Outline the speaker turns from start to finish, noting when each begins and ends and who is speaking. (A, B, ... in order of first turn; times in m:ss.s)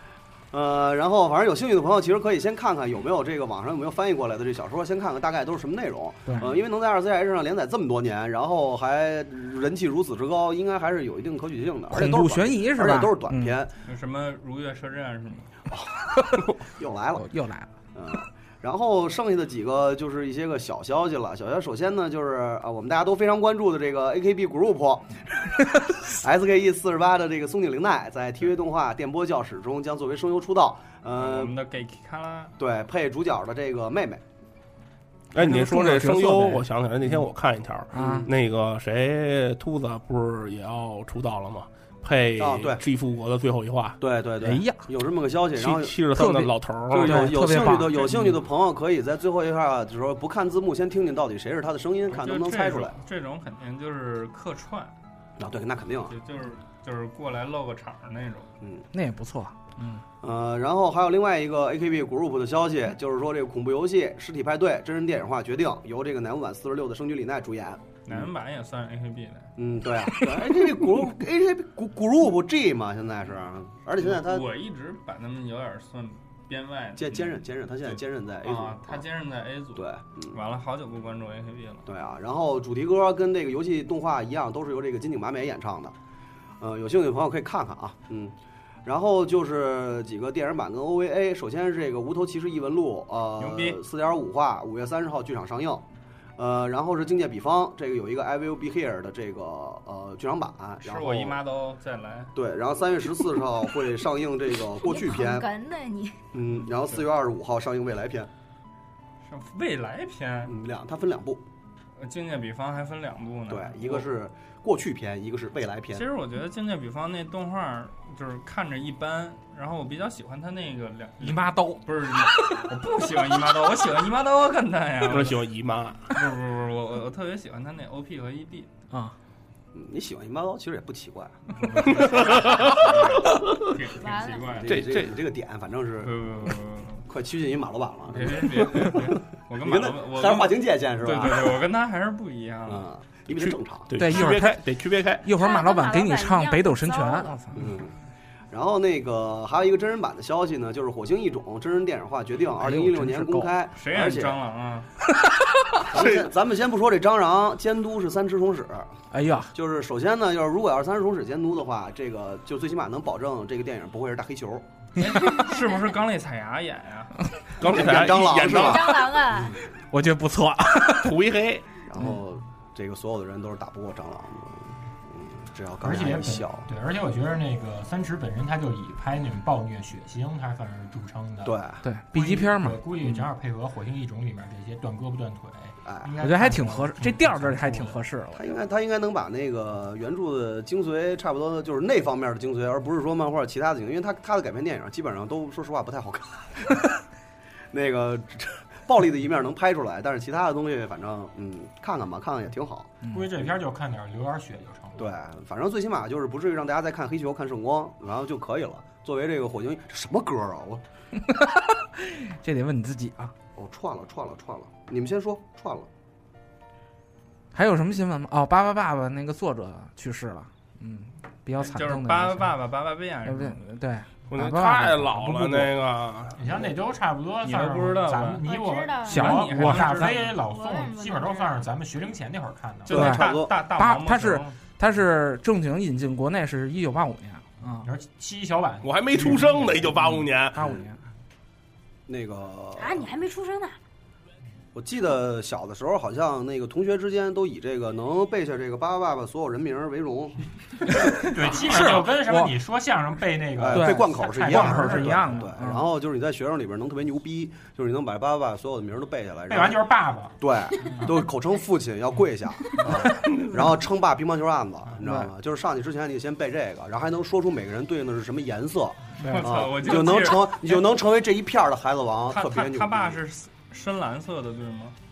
0:00.5-0:13.7 A
0:06.2-0:06.5 B
0:11.9-0:13.6 B
0:13.8-0:15.5 C
0:15.7-0:17.3 A
0:17.2-0:17.7 B
0:17.9-0:31.5 A
0:31.2-0:32.5 C
0:32.6-0:34.2 A
0:35.3-0:44.0 D
0:35.4-0:36.6 B
0:37.9-0:38.3 A
0:37.9-0:38.3 B
0:42.4-0:42.8 A
0:44.0-0:46.0 A
0:44.4-0:44.8 B
0:45.6-0:47.3 D
0:46.1-0:48.4 B
0:46.9-0:53.0 A
0:52.1-0:54.9 C
0:55.4-0:56.1 A
0:56.1-0:58.5 C
0:58.9-1:00.0 B
1:00.2-1:08.3 A
1:08.0-1:09.5 C
1:09.6-1:14.5 A
1:14.0-1:21.9 C
1:17.0-1:19.0 A
1:19.8-1:20.4 A
1:21.9-1:25.9 A
1:26.6-1:28.3 A
1:28.8-1:35.8 A
1:33.4-1:33.8 C
1:36.4-1:41.4 A
1:40.8-1:42.3 C
1:42.3-1:45.4 A
1:44.8-1:46.2 E
1:46.3-1:48.3 A
1:49.2-1:50.5 C
1:50.4-1:51.4 A
1:52.0-1:54.1 C
1:53.5-1:56.0 A
1:55.9-2:05.4 C
2:01.2-2:01.8 B
2:05.0-2:06.1 D
2:06.1-2:08.7 C
2:08.9-2:09.2 B
2:09.7-2:11.4 A
2:11.6-2:14.8 C
2:11.9-2:13.7 D
2:14.0-2:14.6 E
2:14.6-2:16.1 A
2:14.7-2:15.2 D
2:16.0-2:17.0 C
2:17.1-2:21.6 A
2:18.1-2:22.9 C
2:22.7-2:23.9 A
2:23.4-2:25.2 D
2:24.0-2:24.6 B
2:25.2-2:27.6 B
2:25.3-2:27.4 E
2:27.5-2:27.9 A
2:28.5-2:34.4 A
2:32.6-2:33.5 B
2:33.8-2:34.9 C
2:35.9-2:38.9 A
2:39.1-2:39.5 B
2:39.5-2:44.6 A
2:45.0-2:47.2 C
2:47.6-2:48.9 D
2:47.6-2:49.6 A
2:48.5-2:49.6 E
2:49.9-2:51.2 B
2:51.0-2:51.6 D
2:51.8-2:56.7 A
2:55.8-3:01.5 F
3:01.4-3:01.8 A
3:01.8-3:03.2 B
3:02.1-3:08.0 F
3:05.8-3:06.1 A
3:06.2-3:08.5 B
3:08.4-3:16.9 A
3:17.7-3:23.0 A
3:23.0-3:23.3 B
3:23.1-3:25.2 F
3:25.0-3:30.8 A
3:31.1-3:33.3 B
3:33.6-3:35.9 A
3:37.5-3:42.5 B
3:41.6-3:43.6 C
3:43.2-3:45.7 B
3:44.3-3:46.6 D
3:46.4-3:53.0 F
3:47.4-3:48.4 C
3:48.4-3:49.3 E
3:49.1-3:50.2 B
3:49.1-3:50.4 C
3:50.4-3:51.7 E
3:52.9-3:54.6 C
3:52.9-3:53.5 A
3:52.9-3:57.9 B
3:57.8-3:59.9 F
3:58.8-4:00.6 D
4:00.0-4:01.0 B
4:00.6-4:00.8 A
4:02.1-4:03.1 A
4:02.8-4:03.8 E
4:04.7-4:11.3 A
4:11.2-4:15.4 F
4:11.6-4:12.5 B
4:13.6-4:19.9 A
4:13.7-4:15.8 B
4:19.5-4:20.4 F
4:20.4-4:33.2 A
4:25.0-4:25.3 B
4:29.2-4:29.5 B
4:29.2-4:30.9 C
4:32.3-4:34.9 C